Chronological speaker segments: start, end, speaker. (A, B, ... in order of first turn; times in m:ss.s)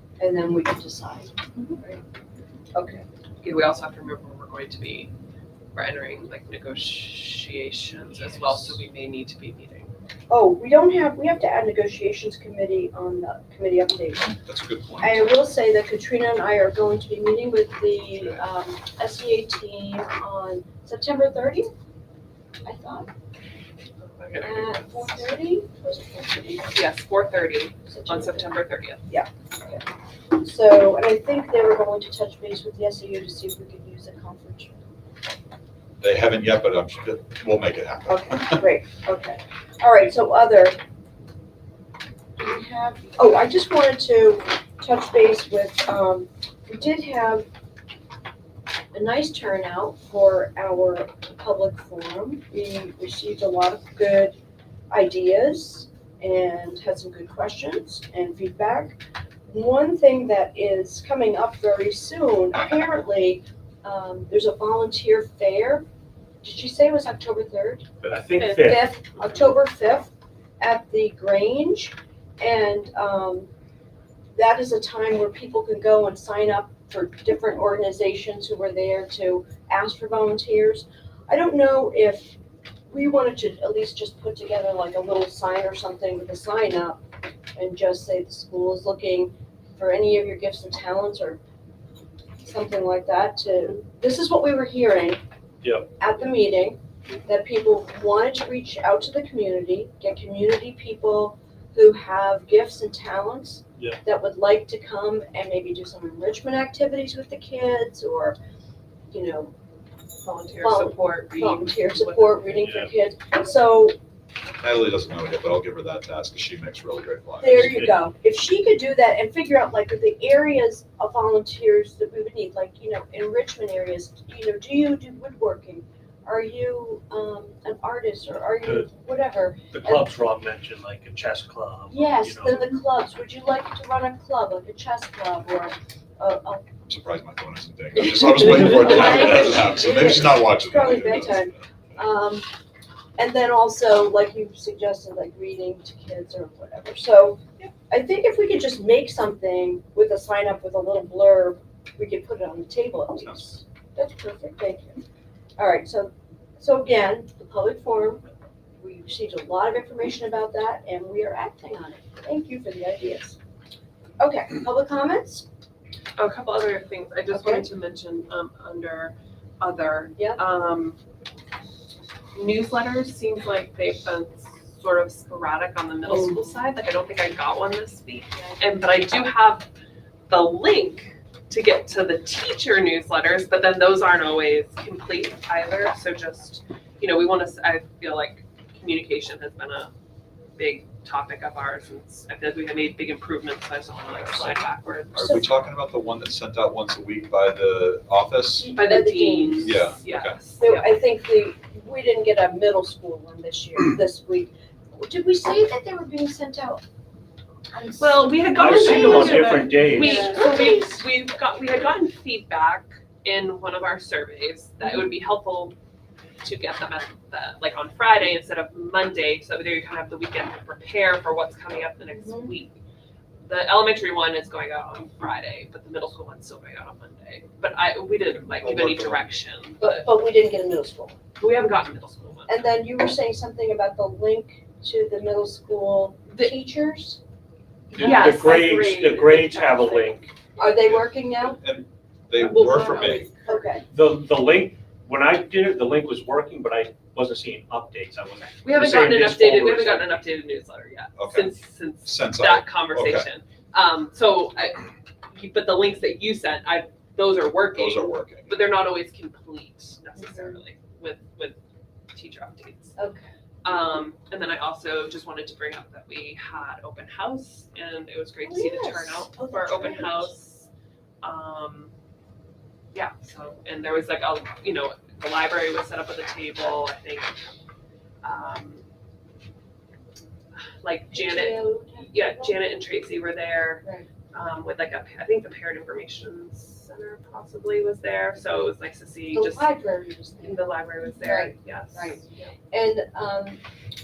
0:00.2-0:02.0 A
0:02.7-0:03.0 A
0:03.4-0:05.1 B
0:05.7-0:09.9 B
0:10.3-0:14.4 A
0:14.4-0:15.3 C
0:15.0-0:21.7 A
0:22.6-0:23.1 A
0:24.0-0:25.3 B
0:24.4-0:26.8 A
0:26.7-0:29.0 B
0:27.9-0:28.5 A
0:29.1-0:34.8 A
0:36.0-0:38.6 C
0:38.1-0:40.8 A
0:42.4-0:47.4 A
0:48.9-0:54.4 A
0:54.9-1:05.8 A
1:06.4-1:07.8 A
1:08.0-1:08.9 D
1:08.4-1:13.5 A
1:14.3-1:22.4 A
1:22.9-1:27.0 A
1:27.5-1:31.4 A
1:32.4-1:35.2 A
1:35.6-1:35.9 D
1:36.0-1:48.4 A
1:49.1-1:49.5 A
1:50.2-1:52.5 B
1:50.6-1:54.0 A
1:52.6-1:52.9 D
1:54.6-1:57.7 C
1:57.4-2:10.0 A
1:57.6-1:57.9 D
2:09.7-2:12.7 D
2:11.9-2:16.7 A
2:16.9-2:21.5 C
2:18.2-2:22.5 A
2:23.2-2:35.0 A
2:33.2-2:33.6 C
2:35.6-2:38.2 A
2:38.8-2:43.4 A
2:44.2-2:45.4 A
2:46.2-2:51.0 B
2:47.3-2:47.6 A
2:52.3-2:59.7 B
2:56.0-2:56.6 A
2:58.3-2:58.6 A
3:00.3-3:09.9 B
3:10.6-3:15.6 B
3:15.1-3:18.7 C
3:18.6-3:19.9 A
3:18.7-3:20.9 B
3:19.6-3:20.4 C
3:20.6-3:26.8 A
3:27.7-3:31.0 A
3:28.0-3:35.7 B
3:28.5-3:30.2 D
3:36.4-3:42.7 B
3:42.1-3:42.5 A
3:43.5-3:50.1 B
3:48.5-3:49.3 C
3:49.8-3:51.2 A
3:51.4-3:52.5 B
3:52.5-3:57.2 A
3:57.9-4:00.3 D
3:58.0-3:58.3 A
3:58.0-4:00.1 B
4:00.6-4:01.6 A
4:00.8-4:03.3 C
4:02.4-4:03.7 B
4:03.0-4:03.8 A
4:03.9-4:10.2 D
4:08.6-4:21.6 B
4:11.2-4:11.5 C
4:12.0-4:13.3 C
4:17.7-4:18.7 C
4:20.2-4:20.6 A
4:22.1-4:22.9 B
4:23.0-4:23.2 A
4:23.6-4:30.7 B
4:28.4-4:30.3 A
4:31.2-4:31.9 B
4:32.9-4:37.3 B
4:38.2-4:38.8 B
4:40.8-4:49.7 B
4:41.1-4:42.7 A
4:49.3-4:50.6 A
4:50.4-4:52.5 B
4:51.2-4:53.6 A